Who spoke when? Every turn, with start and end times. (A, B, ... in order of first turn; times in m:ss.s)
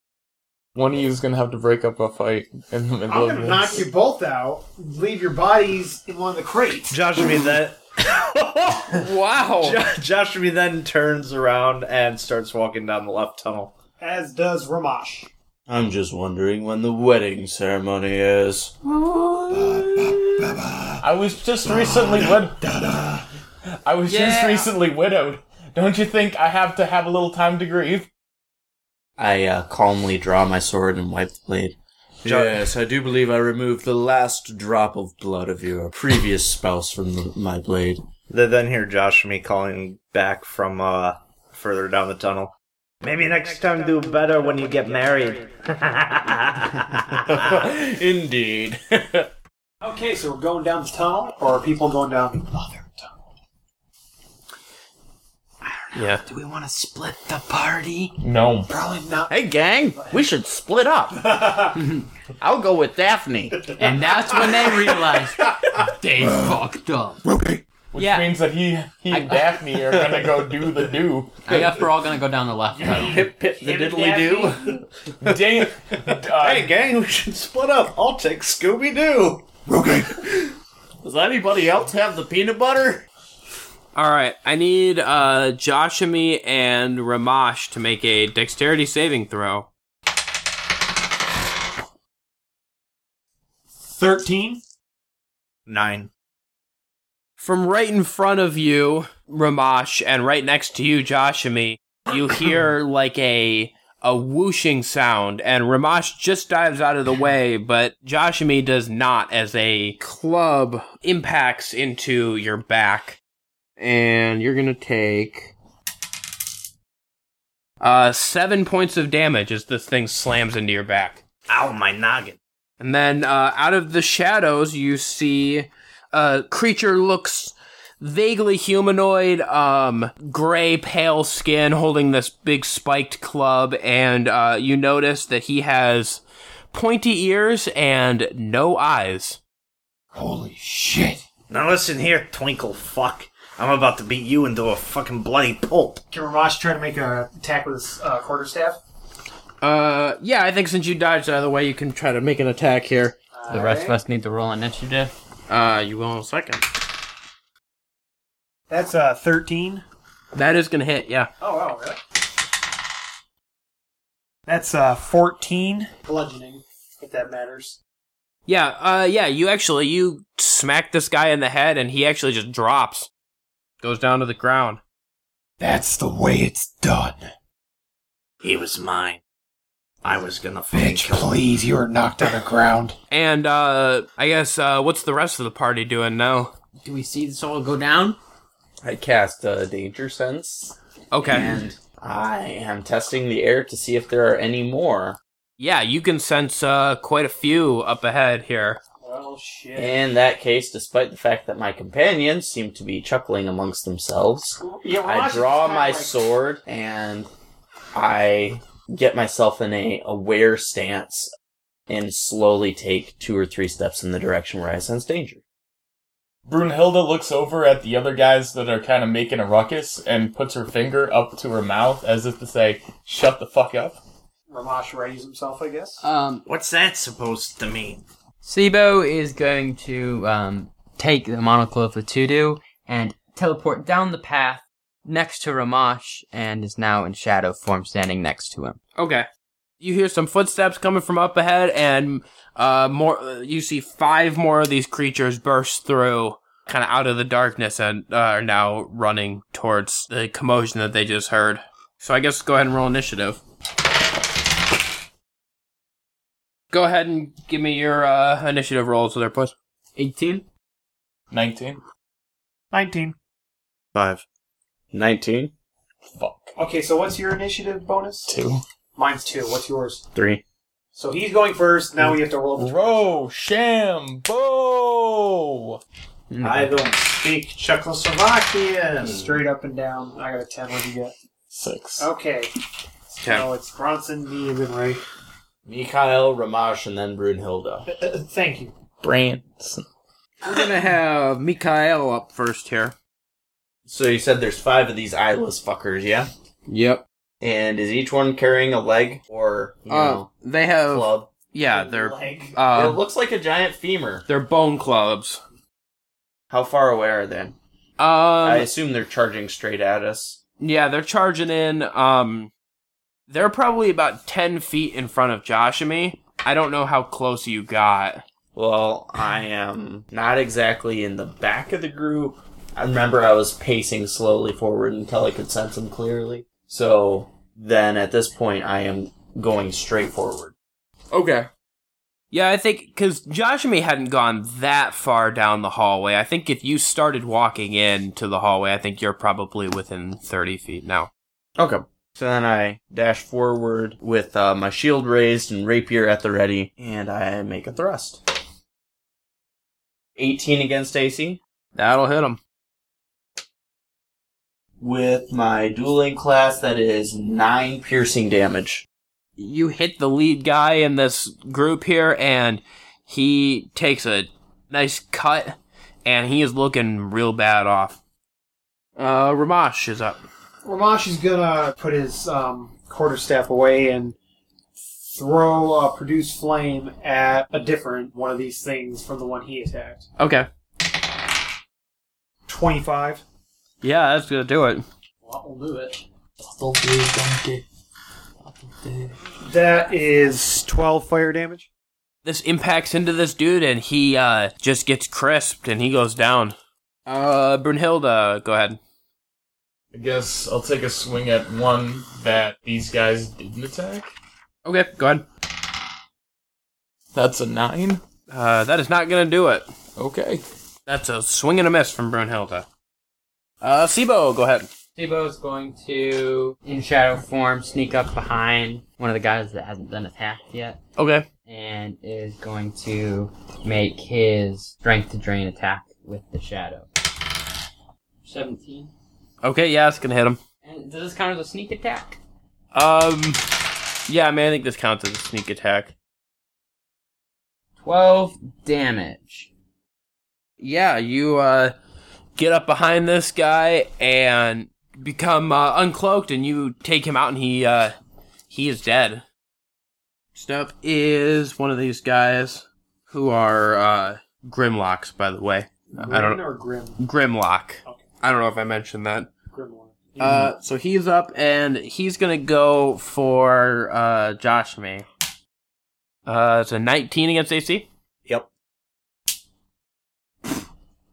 0:00.7-0:03.9 A
0:03.1-0:07.0 B
0:06.9-0:09.1 C
0:08.9-0:09.8 D
0:09.6-0:13.7 C
0:14.0-0:15.3 B
0:15.7-0:18.7 E
0:19.5-0:20.7 F
0:21.0-0:22.7 A
0:21.9-0:23.0 F
0:23.8-0:28.1 A
0:24.1-0:24.7 G
0:29.2-0:38.0 E
0:32.2-0:32.7 C
0:38.3-0:47.5 C
0:44.4-0:44.9 B
0:47.2-0:49.3 E
0:49.8-0:53.1 B
0:55.9-0:56.2 D
0:56.3-0:58.1 G
0:58.2-0:58.7 A
0:58.7-0:59.3 B
0:59.3-1:01.4 E
0:59.9-1:00.2 B
1:01.7-1:02.0 G
1:02.4-1:03.6 E
1:03.7-1:07.2 G
1:06.2-1:06.6 F
1:07.2-1:07.6 F
1:07.9-1:11.9 A
1:08.0-1:08.3 G
1:09.1-1:09.5 G
1:11.4-1:13.3 G
1:12.7-1:14.8 B
1:12.8-1:14.8 E
1:15.2-1:16.7 A
1:16.1-1:19.5 C
1:19.7-1:20.1 F
1:21.0-1:23.0 E
1:23.9-1:29.7 D
1:33.8-1:34.6 B
1:35.7-1:36.1 C
1:37.4-1:53.2 D
1:53.8-1:55.5 D
1:57.8-2:01.2 D
2:01.5-2:02.4 C
2:02.8-2:16.2 D
2:16.7-2:19.4 D
2:20.1-2:21.2 F
2:21.5-2:26.0 C
2:26.1-2:28.8 B
2:29.6-2:33.2 D
2:33.3-2:34.0 B
2:33.5-2:35.1 G
2:35.5-2:36.6 D
2:38.7-2:39.8 B
2:40.3-2:41.3 D
2:41.4-2:42.0 B
2:44.5-2:47.8 B
2:48.5-2:53.1 D
2:53.8-2:54.8 D
2:55.6-2:57.3 F
2:58.4-2:59.2 C
3:00.0-3:01.4 C
3:00.7-3:03.0 F
3:03.1-3:06.5 D
3:06.8-3:08.2 G
3:08.8-3:15.2 E
3:11.1-3:11.5 D
3:15.6-3:18.8 D
3:19.0-3:20.0 B
3:19.8-3:27.3 E
3:24.6-3:26.2 B
3:27.9-3:31.3 E
3:31.9-3:35.4 E
3:36.4-3:44.0 A
3:44.5-3:46.0 B
3:46.0-3:46.4 G
3:46.4-3:48.0 C
3:48.4-3:58.8 G
3:59.0-3:59.3 D
3:59.8-4:13.4 D
4:16.7-4:19.5 D
4:20.0-4:20.4 G
4:21.3-4:21.8 A
4:22.7-4:23.1 B
4:23.9-4:24.2 C
4:24.9-4:25.5 E
4:26.1-4:26.5 A
4:26.6-4:28.3 B
4:28.3-4:28.6 A
4:28.9-4:30.0 B
4:30.1-4:30.4 E
4:30.9-4:33.2 B
4:32.0-4:35.8 A
4:36.3-4:36.8 G
4:36.4-4:39.4 C
4:39.0-4:41.1 B
4:41.5-4:42.1 A
4:42.0-4:42.5 B
4:43.1-4:45.0 B
4:43.2-4:43.5 D
4:45.6-4:47.9 E
4:47.9-4:48.7 B
4:49.0-4:49.8 A
4:50.4-4:52.9 D
4:53.8-4:56.3 E
4:56.7-4:57.0 D
4:57.4-5:00.3 E
4:59.9-5:03.0 D
5:00.8-5:01.3 E
5:01.7-5:02.6 B
5:02.7-5:04.2 E
5:04.3-5:05.4 D
5:06.5-5:07.6 E
5:08.0-5:08.7 D
5:08.4-5:10.4 E
5:10.6-5:12.5 D
5:13.3-5:18.2 D
5:18.5-5:30.5 E
5:31.1-5:31.5 D
5:32.3-5:41.1 D
5:41.6-5:48.2 E
5:50.2-5:51.4 E
5:51.7-5:52.4 D
5:54.8-5:58.8 E
5:59.4-6:08.0 D
6:09.0-6:10.2 D
6:10.6-6:14.2 B
6:15.0-6:20.0 B
6:20.2-6:20.5 D
6:22.5-6:23.2 B
6:23.8-6:24.8 D
6:25.2-6:26.0 B
6:26.4-6:27.6 A
6:28.8-6:29.1 A
6:29.4-6:31.7 B
6:32.2-6:36.5 D
6:37.1-6:38.8 D
6:39.9-6:44.1 A
6:44.6-6:45.2 D
6:47.1-6:48.0 A
6:48.3-6:49.7 D
6:50.0-6:50.4 A
6:50.9-6:52.7 D
6:53.6-6:54.7 D
6:55.0-7:00.8 G
7:01.0-7:01.3 D
7:01.4-7:06.9 G
7:08.2-7:08.9 G
7:09.4-7:10.4 D
7:10.6-7:12.2 G
7:12.7-7:13.4 D
7:14.1-7:15.9 D
7:17.8-7:19.5 G
7:20.6-7:21.7 D
7:22.4-7:27.9 D
7:28.5-7:29.2 D
7:30.3-7:36.4 D
7:35.9-7:37.0 B
7:37.0-7:39.3 D
7:39.5-7:40.5 B
7:40.2-7:45.1 D
7:46.2-7:47.9 D